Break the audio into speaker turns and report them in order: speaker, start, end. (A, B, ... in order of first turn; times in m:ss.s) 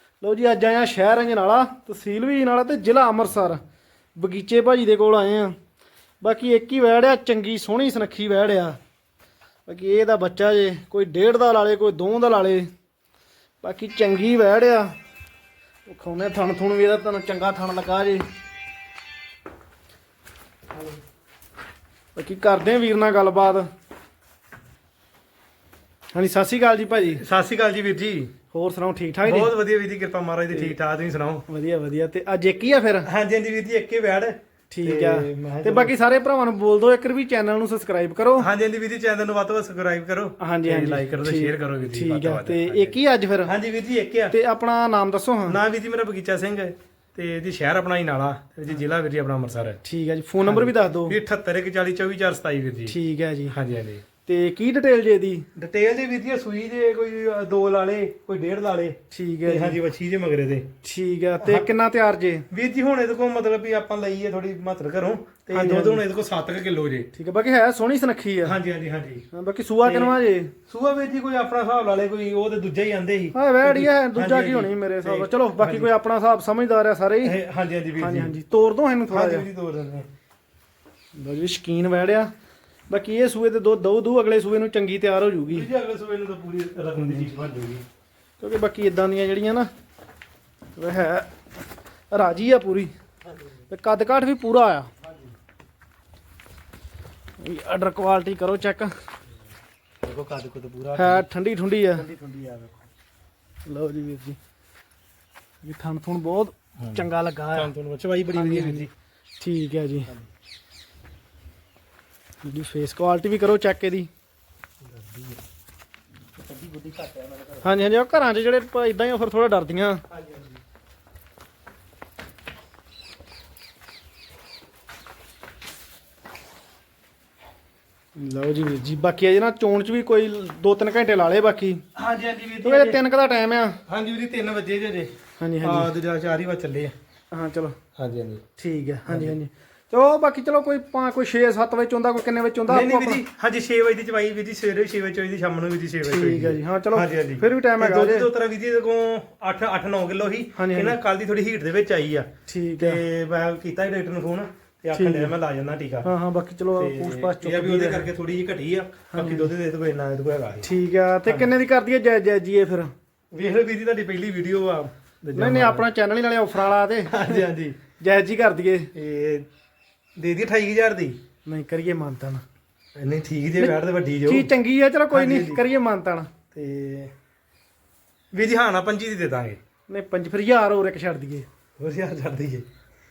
0:00.2-0:03.6 A
0:04.2-0:05.6 A
0:06.2-0:08.8 A
0:09.6-0:12.7 A
0:13.6-0:14.9 A
0:15.8-0:18.2 A
0:22.1-0:23.7 A
0:26.1-0:27.2 A
0:27.1-0:28.3 B
0:28.5-0:29.5 A
0:29.2-0:31.4 B
0:31.5-0:33.1 A
0:33.0-0:35.9 B
0:34.7-0:38.5 A
0:38.4-0:44.3 B
0:40.4-0:43.5 A
0:44.3-0:45.6 A
0:45.5-0:49.8 B
0:49.8-0:51.2 A
0:50.4-0:53.0 B
0:52.9-0:53.5 A
0:53.5-0:54.0 B
0:54.2-0:55.5 A
0:55.5-1:00.7 B
0:59.1-0:59.8 A
1:00.8-1:02.4 A
1:01.4-1:01.7 B
1:02.5-1:07.1 B
1:05.5-1:06.0 A
1:07.1-1:08.6 A
1:08.4-1:09.2 B
1:09.3-1:10.5 A
1:09.8-1:15.9 B
1:13.3-1:17.4 A
1:17.2-1:18.3 B
1:18.0-1:19.5 A
1:19.1-1:20.1 B
1:21.2-1:22.3 A
1:22.9-1:25.7 A
1:25.5-1:27.8 B
1:28.4-1:29.7 A
1:30.8-1:31.3 A
1:32.1-1:32.9 A
1:33.7-1:34.9 A
1:35.0-1:35.3 B
1:37.4-1:38.9 A
1:40.0-1:41.2 B
1:41.0-1:42.1 A
1:42.0-1:42.8 B
1:43.6-1:44.4 A
1:45.6-1:47.7 A
1:46.8-1:48.9 B
1:48.3-1:48.9 A
1:49.4-1:50.1 A
1:52.4-1:54.1 A
1:54.8-1:55.4 B
1:56.4-1:57.7 B
1:57.6-2:00.0 A
2:00.1-2:00.6 B
2:08.2-2:11.8 A
2:11.9-2:13.0 B
2:12.6-2:13.8 A
2:13.9-2:16.9 B
2:15.4-2:15.9 A
2:17.3-2:17.8 A
2:18.0-2:18.4 B
2:18.6-2:23.2 A
2:19.1-2:19.3 B
2:22.7-2:36.1 B
2:26.0-2:28.3 A
2:30.6-2:31.0 A
2:32.5-2:33.0 A
2:34.9-2:35.3 A
2:36.0-2:38.1 A
2:36.8-2:40.7 B
2:39.1-2:39.5 A
2:40.6-2:42.9 A
2:41.2-2:41.5 B
2:43.3-2:45.9 B
2:45.3-2:47.5 A
2:47.1-2:47.8 B
2:48.0-2:48.9 A
2:48.9-2:49.5 B
2:50.2-2:51.2 B
2:51.4-2:52.4 A
2:53.0-2:54.5 B
2:53.6-2:56.3 A
2:55.1-2:55.6 B
2:56.5-2:57.1 B
2:58.3-2:59.6 B
2:59.9-3:01.5 A
3:01.8-3:02.6 B